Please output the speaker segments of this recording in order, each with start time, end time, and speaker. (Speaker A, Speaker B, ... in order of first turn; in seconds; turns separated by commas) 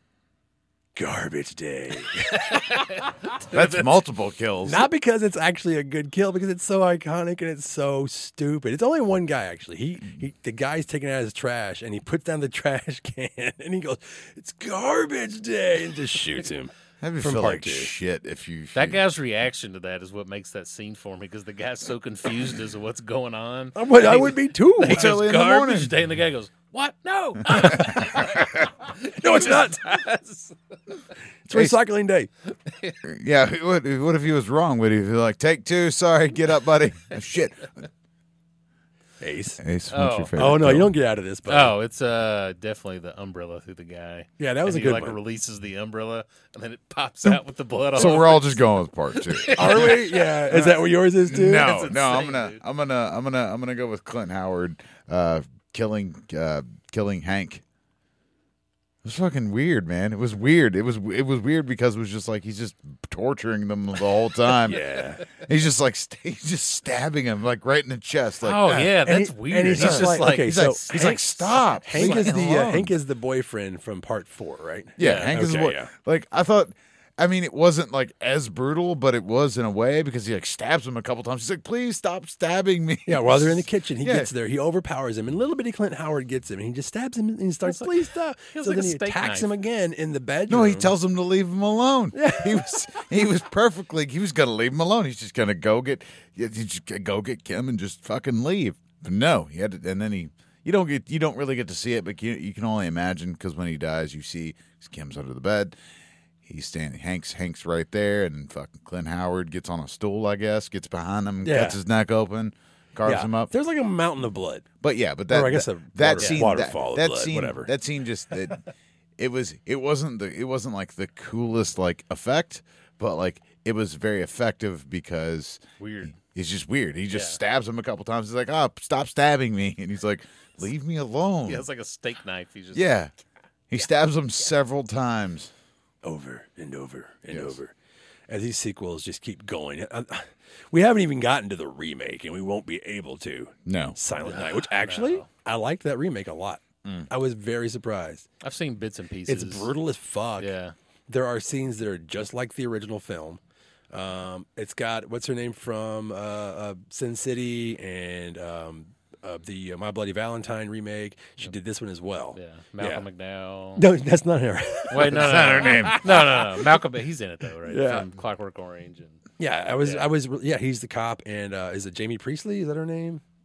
Speaker A: 0.9-2.9, Speaker B: 2.3-3.9, Speaker C: 3.5-4.9, Speaker A: 4.6-17.9, Speaker C: 17.0-19.0, Speaker B: 18.7-30.6, Speaker A: 23.7-25.1, Speaker C: 24.8-25.9, Speaker A: 27.5-28.3, Speaker C: 27.6-28.2, Speaker A: 29.0-30.0, Speaker A: 31.4-32.3, Speaker B: 32.6-33.0, Speaker C: 33.0-37.9, Speaker A: 39.2-39.6, Speaker C: 39.6-40.9, Speaker B: 39.9-40.5, Speaker A: 40.4-41.7, Speaker B: 41.5-48.6, Speaker A: 44.4-45.2, Speaker C: 47.9-57.6, Speaker A: 48.0-48.2, Speaker B: 49.1-50.2, Speaker A: 49.5-51.8, Speaker B: 51.4-52.6, Speaker C: 59.0-68.9, Speaker A: 64.6-65.2, Speaker B: 68.4-71.2, Speaker A: 69.0-75.9, Speaker C: 69.6-72.9, Speaker B: 71.9-72.3, Speaker C: 75.0-84.3, Speaker B: 75.0-75.3, Speaker A: 83.1-90.9, Speaker B: 87.6-89.5, Speaker C: 90.5-105.7, Speaker A: 92.1-92.7, Speaker C: 106.4-113.5, Speaker A: 111.4-111.8, Speaker A: 113.0-114.7, Speaker C: 114.8-118.6, Speaker A: 115.3-117.7, Speaker B: 116.2-116.5, Speaker C: 119.2-125.6, Speaker B: 125.8-126.1, Speaker C: 126.1-131.6, Speaker B: 127.1-127.4, Speaker B: 131.4-133.0, Speaker C: 132.7-133.1, Speaker C: 133.7-135.5, Speaker A: 136.0-137.7, Speaker C: 137.3-137.6, Speaker A: 138.3-148.2, Speaker C: 143.7-144.0, Speaker B: 144.2-145.3, Speaker C: 146.8-147.1, Speaker B: 148.4-149.7, Speaker A: 149.3-150.5, Speaker B: 150.4-150.7, Speaker A: 151.1-153.4, Speaker A: 153.9-163.1, Speaker B: 162.3-163.9, Speaker A: 163.8-166.7, Speaker B: 164.9-169.2, Speaker C: 165.1-166.1, Speaker A: 167.7-168.1, Speaker A: 169.4-173.2, Speaker B: 169.8-170.1